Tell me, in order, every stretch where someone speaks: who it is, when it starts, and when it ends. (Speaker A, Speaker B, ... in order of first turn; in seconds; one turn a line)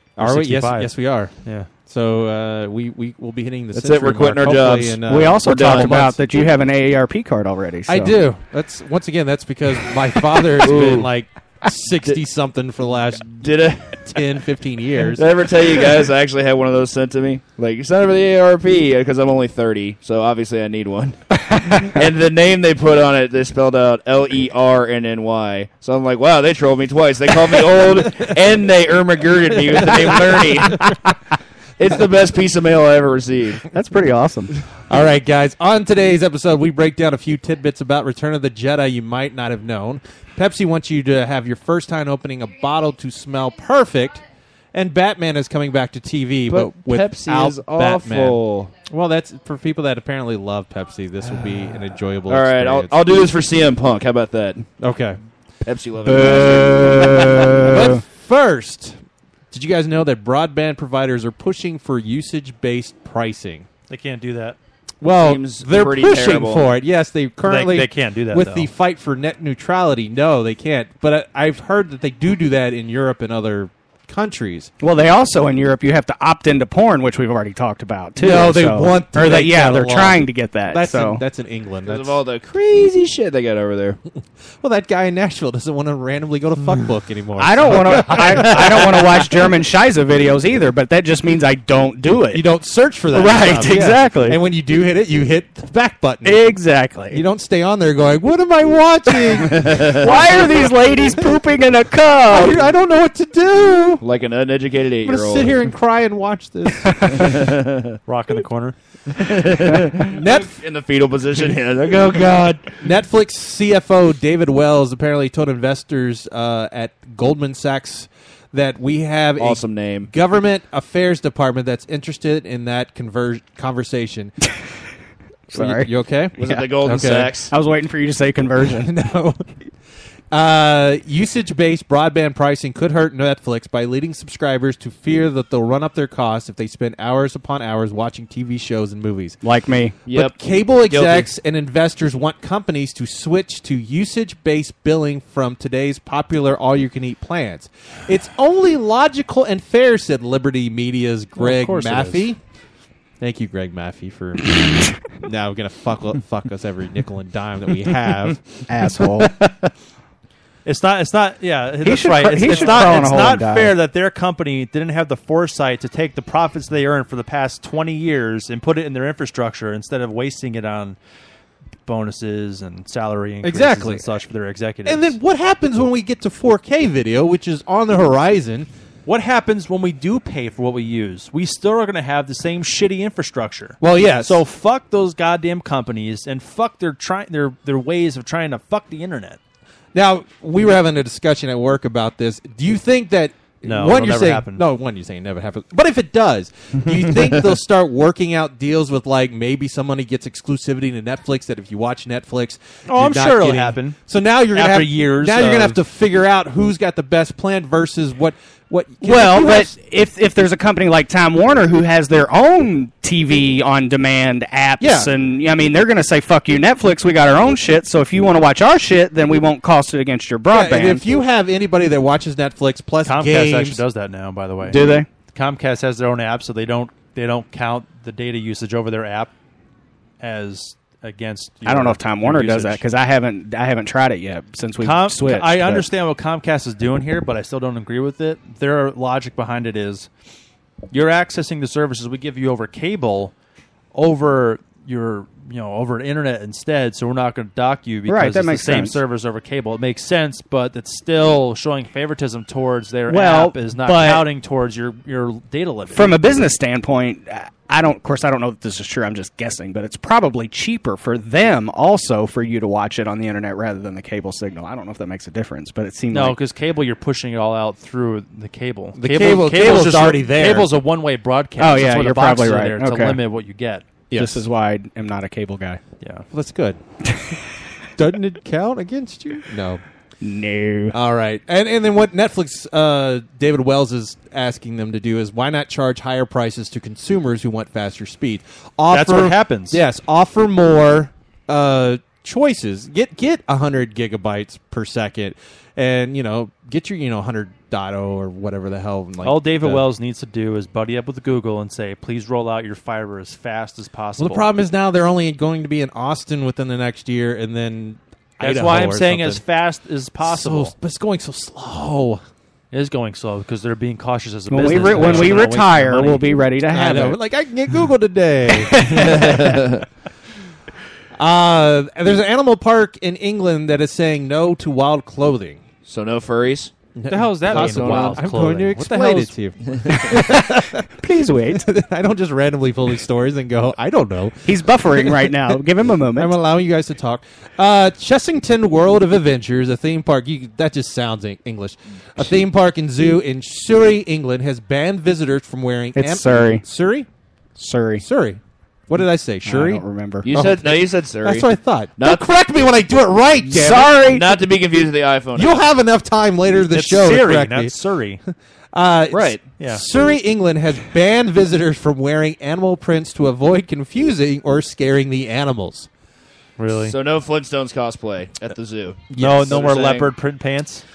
Speaker A: 0.2-6.2
Speaker B: 0.2-1.7
Speaker C: 3.7-6.0
Speaker D: 5.0-8.1
Speaker A: 7.9-15.3
Speaker C: 10.6-11.1
Speaker C: 13.1-14.1
Speaker C: 15.1-21.2
Speaker D: 21.5-21.9
Speaker C: 21.7-30.8
Speaker D: 30.8-31.1
Speaker C: 31.8-33.7
Speaker D: 33.7-34.6
Speaker A: 34.9-44.2
Speaker A: 44.7-53.0
Speaker C: 46.5-48.7
Speaker C: 52.3-54.6
Speaker A: 54.8-55.2
Speaker C: 55.6-57.8
Speaker D: 56.0-58.0
Speaker A: 57.6-59.0
Speaker A: 59.5-63.7
Speaker B: 63.9-64.6
Speaker A: 65.0-74.7
Speaker C: 65.2-66.7
Speaker B: 67.5-68.7
Speaker D: 74.8-81.2
Speaker A: 78.2-82.2
Speaker C: 81.8-84.0
Speaker A: 84.6-89.2
Speaker D: 87.4-92.5
Speaker C: 88.1-88.6
Speaker A: 92.3-96.5
Speaker D: 93.1-94.4
Speaker B: 93.6-94.0
Speaker D: 96.2-97.2
Speaker A: 97.1-99.8
Speaker C: 99.5-100.0
Speaker D: 99.9-102.6
Speaker A: 100.3-100.7
Speaker A: 102.3-104.0
Speaker C: 104.0-105.6
Speaker A: 105.0-107.3
Speaker D: 106.8-107.2
Speaker C: 107.1-108.0
Speaker B: 108.1-108.8
Speaker C: 109.1-112.8
Speaker A: 110.1-110.6
Speaker A: 112.8-124.3
Speaker C: 119.4-120.1
Speaker D: 125.5-125.9
Speaker A: 125.5-127.3
Speaker C: 126.4-127.5
Speaker D: 127.5-128.9
Speaker A: 128.8-129.4
Speaker A: 130.3-139.4
Speaker D: 139.4-140.0
Speaker C: 140.1-141.3
Speaker A: 140.1-152.4
Speaker B: 151.4-152.3
Speaker A: 153.2-158.7
Speaker D: 158.7-159.7
Speaker B: 160.6-171.0
Speaker D: 161.8-163.8
Speaker A: 162.5-163.0
Speaker B: 171.8-175.1
Speaker A: 173.4-174.1
Speaker A: 174.8-178.7
Speaker B: 179.1-189.4
Speaker A: 183.8-184.4
Speaker A: 189.9-209.7
Speaker B: 193.6-194.6
Speaker B: 202.9-204.0
Speaker B: 204.5-205.8
Speaker D: 209.0-221.2
Speaker A: 214.8-215.1
Speaker A: 220.5-223.8
Speaker B: 223.0-229.3
Speaker D: 224.6-225.1
Speaker B: 230.2-232.8
Speaker D: 231.6-235.9
Speaker B: 234.8-240.1
Speaker B: 240.9-243.3
Speaker B: 243.9-256.2
Speaker D: 248.1-249.0
Speaker D: 253.1-254.3
Speaker D: 255.9-266.4
Speaker B: 266.1-273.9
Speaker A: 268.9-270.7
Speaker D: 271.6-273.2
Speaker A: 274.1-274.4
Speaker D: 274.1-275.8
Speaker B: 276.0-276.2
Speaker A: 276.3-276.8
Speaker A: 278.0-279.8
Speaker D: 280.2-280.9
Speaker A: 280.9-299.9
Speaker B: 288.9-289.8
Speaker B: 299.2-304.5
Speaker A: 304.2-309.4
Speaker B: 308.4-310.7
Speaker A: 310.2-312.2
Speaker B: 312.7-316.3
Speaker D: 314.5-317.2
Speaker A: 314.8-315.4
Speaker A: 316.7-319.6
Speaker D: 318.6-319.3
Speaker C: 319.0-319.8
Speaker A: 321.1-325.6
Speaker C: 325.9-326.7
Speaker A: 326.9-330.9
Speaker B: 327.1-329.3
Speaker C: 327.5-328.2
Speaker D: 329.9-331.7
Speaker A: 331.5-335.6
Speaker D: 334.4-336.3
Speaker A: 336.1-347.1
Speaker D: 346.0-346.6
Speaker D: 347.6-348.0
Speaker A: 348.0-354.0
Speaker D: 349.4-350.3
Speaker C: 350.2-352.2
Speaker D: 353.5-354.4
Speaker C: 354.0-355.5
Speaker A: 355.4-357.8
Speaker B: 356.7-358.2
Speaker A: 358.7-365.9
Speaker C: 359.1-359.4
Speaker B: 359.6-359.8
Speaker B: 366.6-366.9
Speaker C: 366.8-370.1
Speaker A: 369.1-369.6
Speaker B: 369.2-370.8